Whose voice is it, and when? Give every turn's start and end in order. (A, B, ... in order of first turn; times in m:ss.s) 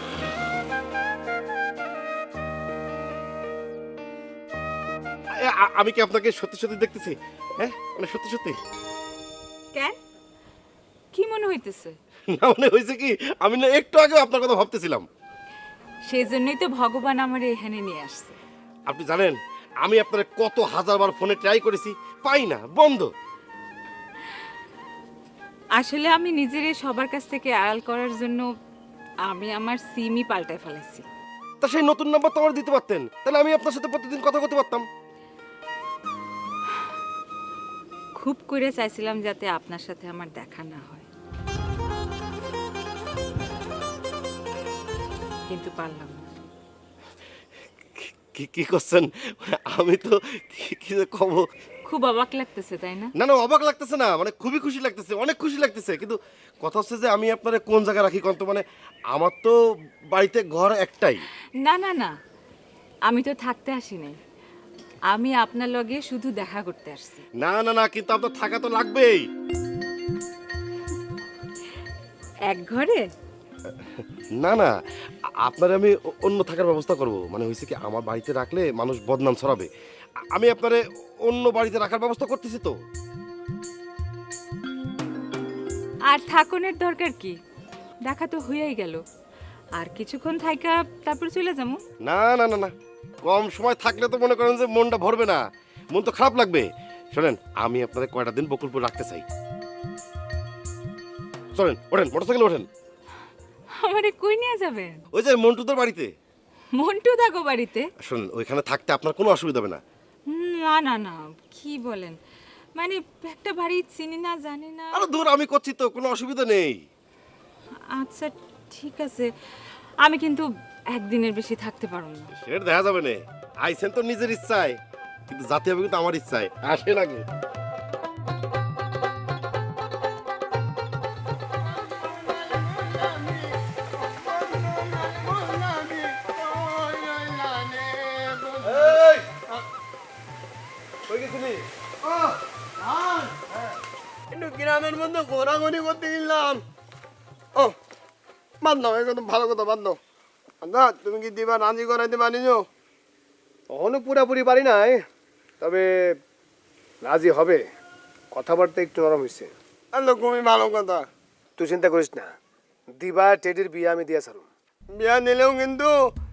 0:05.4-0:08.6 A
0:11.1-0:12.0 B
0:12.3-0:15.1 A
0:16.1-0:18.4 B
0:18.9-0:23.1 A
0:25.8-0:28.5 B
0:29.3-0:31.0 B
0:31.6-0:34.8 A
0:38.2-0:41.0 B
0:45.5-0:46.3 B
0:48.0-0:51.4 A
0:51.9-0:53.1 B
0:53.2-0:59.6 A
1:00.1-1:01.2 A
1:01.7-1:02.1 B
1:03.1-1:04.2 B
1:05.1-1:07.2 B
1:07.4-1:09.2 A
1:12.5-1:13.0 B
1:14.0-1:14.7 A
1:15.5-1:19.7 A
1:20.4-1:22.7 A
1:26.1-1:27.4 B
1:28.1-1:29.0 B
1:29.8-1:31.8 B
1:32.1-1:32.7 A
1:33.2-1:35.4 A
1:35.9-1:39.2 A
1:41.6-1:42.7 A
1:43.8-1:45.0 B
1:45.1-1:46.1 A
1:46.8-1:47.9 B
1:48.0-1:49.8 A
1:50.3-1:52.2 B
1:52.8-1:55.0 B
1:54.9-1:56.8 A
1:58.0-1:59.3 B
2:00.0-2:02.3 B
2:02.4-2:04.8 A
2:05.3-2:07.2 A
2:11.9-2:13.5 C
2:14.0-2:19.6 C
2:18.8-2:19.2 D
2:21.1-2:21.6 D
2:24.3-2:26.6 C
2:28.6-2:30.0 C
2:30.6-2:32.6 C
2:33.7-2:35.0 D
2:35.6-2:35.9 D
2:37.0-2:37.6 D
2:38.3-2:39.5 D
2:39.9-2:41.0 C
2:41.6-2:42.3 D
2:43.0-2:44.5 D
2:45.0-2:45.9 C